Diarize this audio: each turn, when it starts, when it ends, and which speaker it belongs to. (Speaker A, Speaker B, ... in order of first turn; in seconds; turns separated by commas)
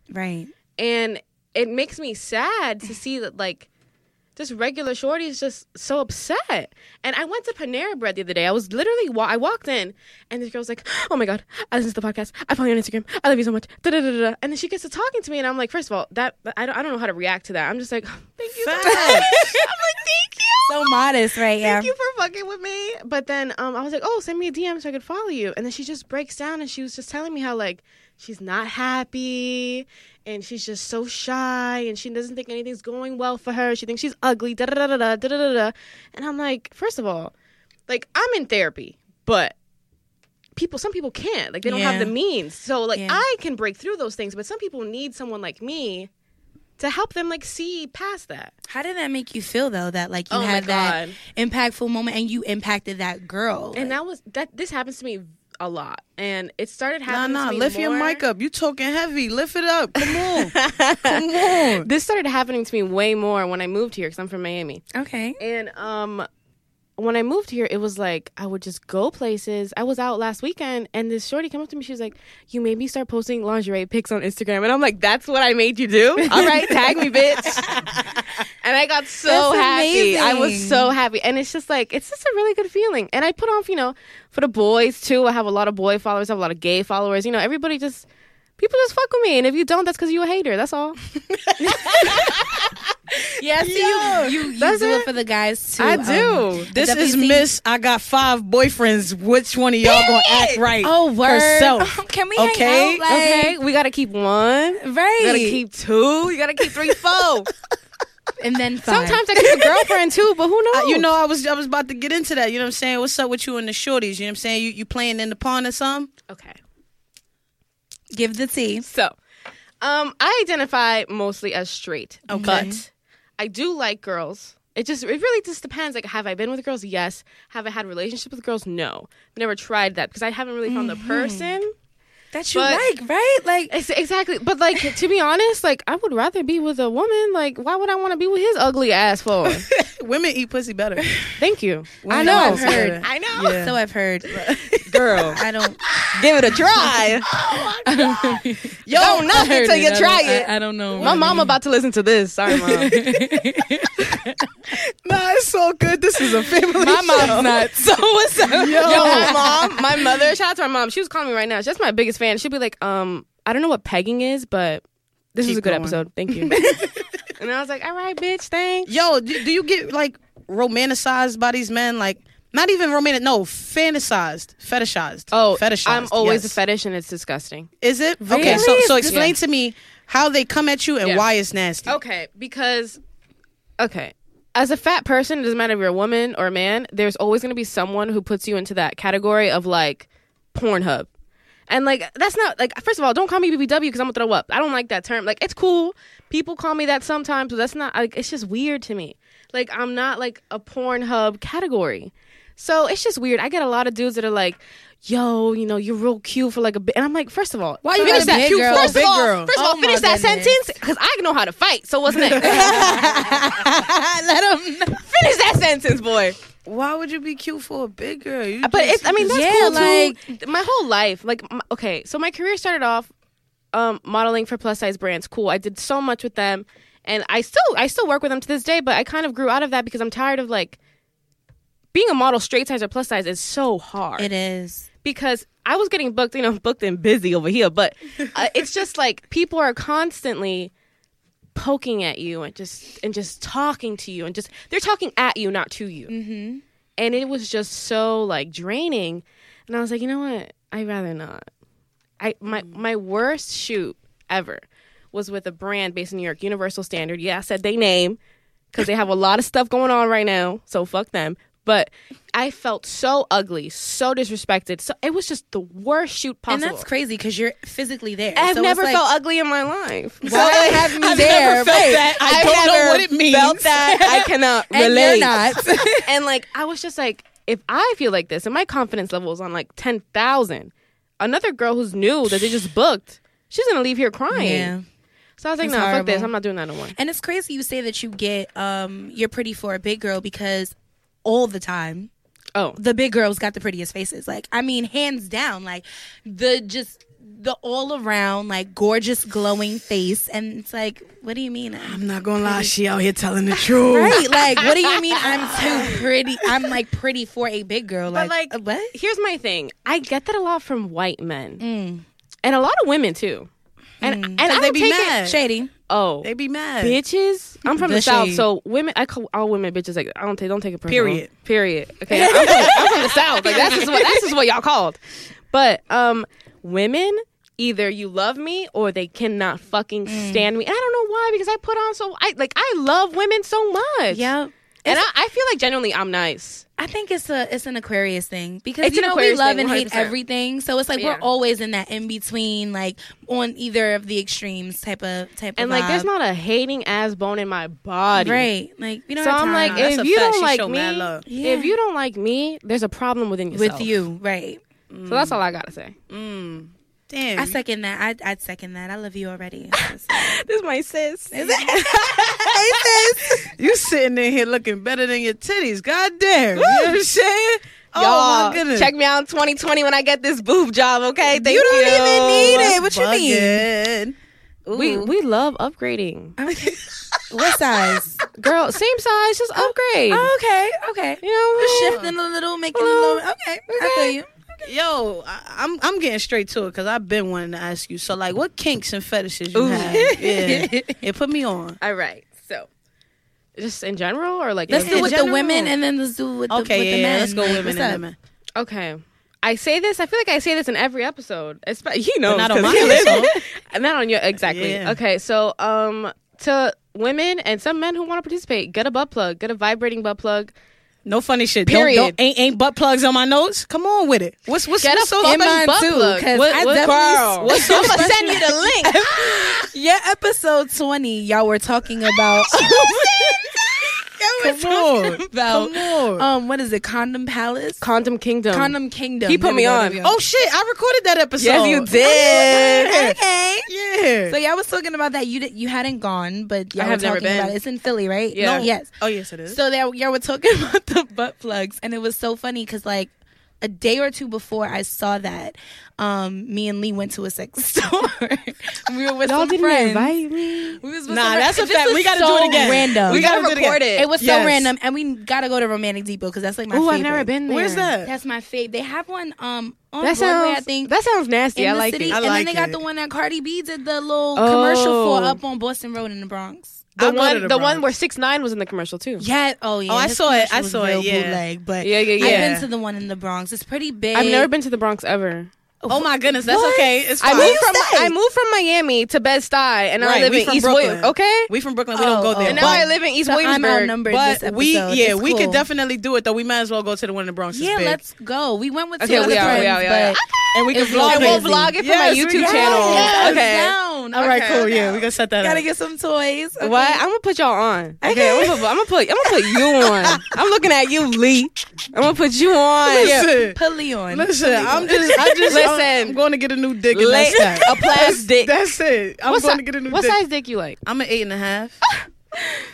Speaker A: 0.1-0.5, Speaker B: 0.8-3.7, Speaker B: 4.4-21.0, Speaker C: 18.5-19.4, Speaker A: 18.8-19.6, Speaker A: 20.7-21.9, Speaker B: 21.6-37.3, Speaker B: 37.9-39.5, Speaker B: 40.6-46.1, Speaker A: 41.6-42.1, Speaker A: 43.0-43.2, Speaker B: 46.8-48.5, Speaker A: 48.7-54.0, Speaker B: 50.3-51.2, Speaker B: 53.8-58.2, Speaker C: 57.1-61.9, Speaker B: 60.0-64.8, Speaker A: 64.9-65.4, Speaker B: 65.4-66.3, Speaker B: 67.0-77.8, Speaker A: 76.2-77.0, Speaker C: 77.6-78.3, Speaker B: 78.6-88.0, Speaker A: 79.3-80.9, Speaker B: 88.6-91.0, Speaker C: 91.3-92.7, Speaker A: 91.7-92.3, Speaker B: 92.1-92.6, Speaker A: 93.4-97.5, Speaker C: 93.6-94.3, Speaker B: 94.6-95.1, Speaker B: 95.8-96.7, Speaker C: 96.7-103.0, Speaker B: 99.8-100.7, Speaker A: 100.8-103.6, Speaker B: 103.1-107.5, Speaker A: 104.8-105.6, Speaker A: 108.4-109.3, Speaker B: 108.9-111.1, Speaker C: 109.4-109.7, Speaker C: 110.7-116.1, Speaker B: 116.3-116.6, Speaker A: 118.1-118.8, Speaker B: 118.8-119.2, Speaker B: 119.8-122.9, Speaker C: 122.3-122.8, Speaker A: 122.3-122.8, Speaker B: 123.4-131.7, Speaker A: 130.7-131.6, Speaker A: 132.3-133.7, Speaker B: 132.5-132.9, Speaker B: 133.7-139.7, Speaker C: 139.5-141.4, Speaker B: 141.4-143.6, Speaker C: 142.0-143.8, Speaker A: 142.1-144.5, Speaker C: 144.3-145.0, Speaker B: 144.8-145.4, Speaker A: 145.1-145.8, Speaker B: 146.1-147.3, Speaker C: 147.3-148.3, Speaker A: 147.8-151.6, Speaker B: 148.9-153.0, Speaker C: 150.9-151.4, Speaker A: 152.5-154.5, Speaker C: 152.5-153.2, Speaker C: 154.7-157.6, Speaker A: 156.7-160.2, Speaker B: 157.2-157.5, Speaker C: 158.5-159.5, Speaker B: 158.8-164.8, Speaker B: 165.3-166.6, Speaker C: 165.4-167.0, Speaker A: 166.5-166.9, Speaker B: 167.4-169.0, Speaker C: 168.9-176.6, Speaker B: 175.3-177.7, Speaker C: 177.8-181.9, Speaker A: 178.2-179.2, Speaker B: 178.3-179.3, Speaker B: 181.9-183.0, Speaker B: 183.8-191.1, Speaker B: 191.7-213.2, Speaker A: 207.8-210.7, Speaker C: 207.9-209.5, Speaker C: 212.1-213.4, Speaker A: 212.3-215.1, Speaker B: 215.1-216.4, Speaker C: 216.7-219.9, Speaker B: 218.6-223.1, Speaker A: 219.2-220.4, Speaker B: 223.7-230.8, Speaker B: 231.9-234.3, Speaker A: 234.2-234.9, Speaker B: 235.0-240.7, Speaker B: 241.6-246.1, Speaker A: 246.1-246.6, Speaker B: 247.0-251.5, Speaker B: 252.2-258.2, Speaker B: 258.7-266.9, Speaker A: 266.5-269.0, Speaker B: 268.4-284.7, Speaker A: 270.2-272.5, Speaker C: 270.2-274.2, Speaker A: 274.1-276.1, Speaker A: 284.3-284.8, Speaker B: 285.4-287.0, Speaker A: 285.6-286.3, Speaker A: 286.9-292.1, Speaker A: 292.8-302.7, Speaker C: 301.8-304.4, Speaker A: 303.9-308.9, Speaker B: 304.6-306.1, Speaker B: 308.1-311.6, Speaker A: 311.6-312.1, Speaker B: 312.4-313.5, Speaker B: 314.0-315.2, Speaker A: 314.0-315.7, Speaker C: 314.4-315.4, Speaker B: 315.9-325.0, Speaker C: 316.2-317.0, Speaker A: 317.8-318.4, Speaker C: 320.9-321.3, Speaker C: 322.1-323.0, Speaker A: 322.2-324.0, Speaker B: 325.5-334.3, Speaker A: 330.1-330.5, Speaker A: 334.1-335.1, Speaker B: 334.8-336.6, Speaker A: 336.8-346.1, Speaker B: 338.8-340.2, Speaker B: 341.0-341.3, Speaker B: 345.6-348.5, Speaker A: 348.1-349.9, Speaker B: 349.2-353.9, Speaker C: 349.6-351.3, Speaker A: 351.3-351.8, Speaker A: 353.5-354.6, Speaker C: 354.9-355.4, Speaker B: 355.1-355.9, Speaker C: 356.1-357.6, Speaker A: 357.4-360.4, Speaker B: 359.8-363.1, Speaker A: 361.3-363.5, Speaker C: 363.6-368.9, Speaker B: 366.6-367.0, Speaker B: 367.9-372.8, Speaker A: 371.3-373.7, Speaker C: 371.7-374.2, Speaker C: 374.7-375.1, Speaker B: 374.8-376.4, Speaker A: 376.4-376.8, Speaker C: 376.5-377.0, Speaker A: 377.3-378.2, Speaker B: 378.4-380.3, Speaker A: 379.6-384.7, Speaker B: 381.2-382.0, Speaker C: 381.6-382.1, Speaker B: 382.7-384.2, Speaker C: 384.6-391.8, Speaker B: 389.5-390.1, Speaker A: 389.6-391.0, Speaker B: 391.8-392.7, Speaker B: 393.6-395.5, Speaker C: 394.7-395.7, Speaker A: 394.7-398.0, Speaker C: 396.5-398.1, Speaker B: 398.6-410.5, Speaker C: 402.3-403.3, Speaker A: 402.7-403.4, Speaker C: 404.4-405.0, Speaker C: 411.1-415.6, Speaker B: 411.7-412.2, Speaker B: 414.8-419.0, Speaker A: 415.2-427.8, Speaker C: 417.4-418.4, Speaker C: 424.3-426.3, Speaker B: 427.8-430.1, Speaker A: 428.5-430.2, Speaker C: 430.0-433.2, Speaker B: 431.4-432.9, Speaker A: 431.9-433.7, Speaker C: 433.7-434.4, Speaker A: 434.3-438.9, Speaker B: 436.8-437.6, Speaker B: 438.3-438.7, Speaker C: 438.4-439.6, Speaker A: 439.5-450.1, Speaker B: 449.2-450.8, Speaker A: 450.8-453.3, Speaker C: 451.1-454.7, Speaker B: 452.2-454.1, Speaker A: 453.9-457.3, Speaker B: 456.7-457.9, Speaker C: 457.4-458.1, Speaker A: 458.0-460.9, Speaker B: 460.0-462.2, Speaker A: 461.6-466.9, Speaker C: 462.1-462.8, Speaker B: 464.4-465.4, Speaker C: 467.0-467.9, Speaker B: 467.0-469.3, Speaker A: 469.2-474.5, Speaker C: 469.9-471.4, Speaker B: 471.8-472.5, Speaker C: 472.2-472.7, Speaker B: 474.1-475.5, Speaker A: 475.8-478.1, Speaker C: 475.9-477.6, Speaker B: 477.2-481.5, Speaker C: 480.0-482.9, Speaker A: 481.9-485.6, Speaker B: 482.5-483.9, Speaker C: 484.1-488.0, Speaker A: 487.5-491.8, Speaker B: 489.0-493.8, Speaker C: 489.1-489.8, Speaker C: 490.5-493.4, Speaker A: 492.3-497.0, Speaker C: 494.1-495.6, Speaker B: 496.6-503.3, Speaker A: 498.0-498.7, Speaker C: 502.9-503.6, Speaker A: 502.9-505.7, Speaker C: 504.1-510.2, Speaker B: 505.5-506.2, Speaker B: 506.9-508.5, Speaker B: 509.3-510.8, Speaker C: 510.8-511.8